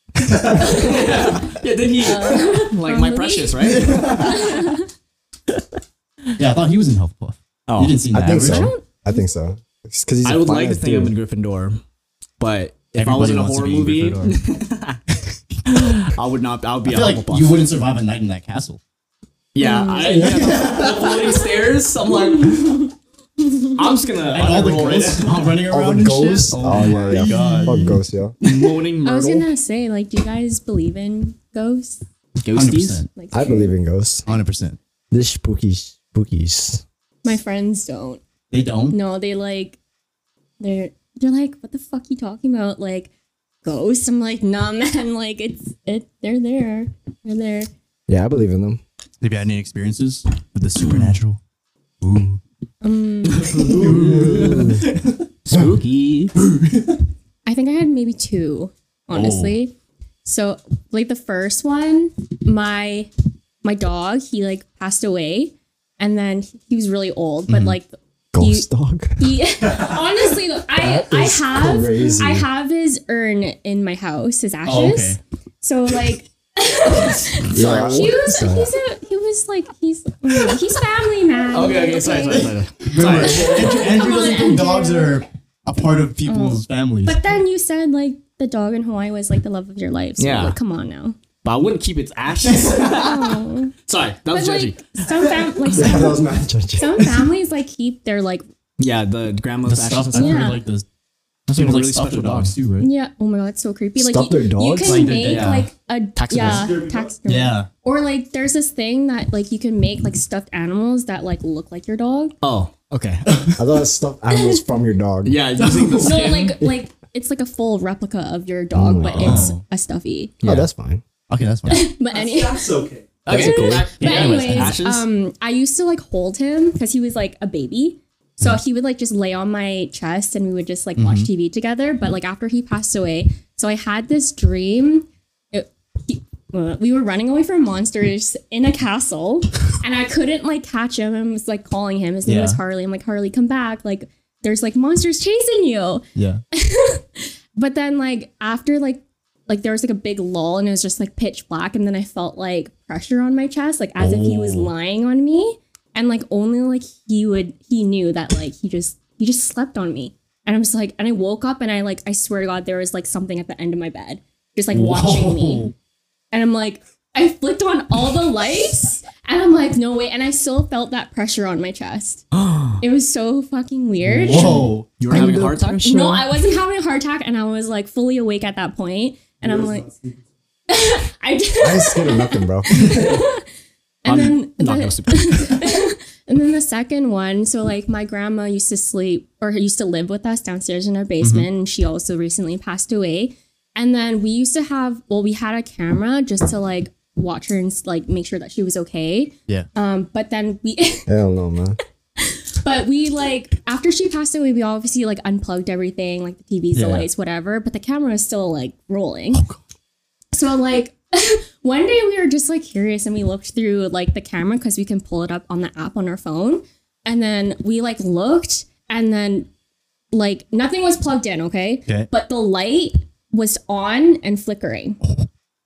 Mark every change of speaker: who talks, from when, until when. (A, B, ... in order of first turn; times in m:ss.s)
0:00.2-0:01.1 A
0:00.5-0:04.5 B
0:02.0-0:04.8 C
0:03.7-0:04.5 A
0:06.4-0:08.7 A
0:07.7-0:08.0 B
0:08.1-0:11.1 D
0:08.3-0:09.2 C
0:10.2-0:11.8 B
0:12.4-0:15.0 B
0:12.9-0:14.4 A
0:15.7-0:17.5 B
0:16.8-0:18.8 A
0:19.5-0:22.9 B
0:19.6-0:20.6 C
0:20.0-0:20.5 D
0:20.2-0:21.1 A
0:22.3-0:22.9 C
0:23.7-0:25.6 B
0:24.3-0:28.0 A
0:25.7-0:28.4 D
0:27.1-0:27.8 B
0:28.4-0:29.4 B
0:29.0-0:32.0 C
0:32.4-0:33.0 B
0:32.5-0:33.1 A
0:33.1-0:33.7 C
0:33.3-0:34.2 D
0:34.2-0:34.8 A
0:35.1-0:36.8 D
0:37.2-0:38.2 C
0:38.5-0:39.0 A
0:38.9-0:39.8 C
0:40.6-0:43.1 C
0:43.6-0:47.7 C
0:48.1-0:48.8 D
0:49.2-0:51.4 A
0:50.9-0:51.1 B
0:52.0-0:52.4 A
0:52.8-0:53.9 C
0:53.3-0:54.3 B
0:53.7-0:54.6 E
0:53.7-0:54.9 A
0:53.8-0:54.8 D
0:55.4-0:56.3 B
0:57.4-0:59.7 C
0:59.1-0:59.6 A
1:00.2-1:03.1 C
1:03.6-1:08.7 C
1:07.5-1:07.8 A
1:08.3-1:09.4 D
1:09.2-1:25.2 C
1:10.8-1:12.5 D
1:14.6-1:15.2 A
1:17.5-1:18.7 D
1:17.6-1:18.1 B
1:21.5-1:23.8 B
1:22.3-1:27.2 A
1:26.2-1:31.2 C
1:30.2-1:30.6 B
1:31.4-1:36.0 B
1:32.5-1:32.9 A
1:32.9-1:33.7 C
1:34.3-1:36.2 C
1:35.8-1:37.3 D
1:36.8-1:38.4 C
1:38.8-1:40.6 B
1:39.7-1:40.8 A
1:40.1-1:40.6 C
1:41.5-1:42.5 B
1:41.5-1:42.9 A
1:42.8-1:52.3 C
1:44.0-1:45.2 D
1:44.8-1:45.7 A
1:45.1-1:45.6 B
1:46.2-1:46.7 B
1:46.4-1:47.1 E
1:47.2-1:47.7 A
1:52.4-1:53.2 B
1:53.2-1:53.6 A
1:53.6-1:55.4 D
1:54.3-1:54.6 C
1:55.2-1:56.6 B
1:55.6-1:56.2 A
1:56.0-2:00.4 C
1:58.7-1:59.5 D
1:59.0-1:59.6 A
2:00.4-2:00.7 B
2:00.4-2:01.0 D
2:01.3-2:01.9 A
2:01.7-2:02.7 C
2:02.1-2:03.2 E
2:03.2-2:05.1 B
2:03.3-2:03.9 D
2:03.3-2:45.7 C
2:04.0-2:04.8 A
2:11.0-2:11.3 A
2:22.2-2:22.6 A
2:26.2-2:26.4 A
2:34.0-2:34.7 A
2:44.7-2:45.7 A
2:46.3-2:52.2 C
2:52.3-2:52.8 B
2:52.8-2:54.7 C
2:54.0-2:56.2 D
2:54.2-2:55.6 A
2:55.0-2:56.2 B
2:55.8-2:59.9 C
2:59.4-3:00.2 E
3:00.7-3:03.4 C
3:01.6-3:02.9 D
3:02.8-3:03.1 B
3:04.0-3:21.1 C
3:04.0-3:05.6 B
3:11.2-3:11.5 A
3:21.1-3:21.8 D
3:22.2-3:29.4 C
3:26.7-3:27.1 A
3:29.3-3:29.6 A
3:30.3-3:39.5 C
3:40.1-3:45.0 C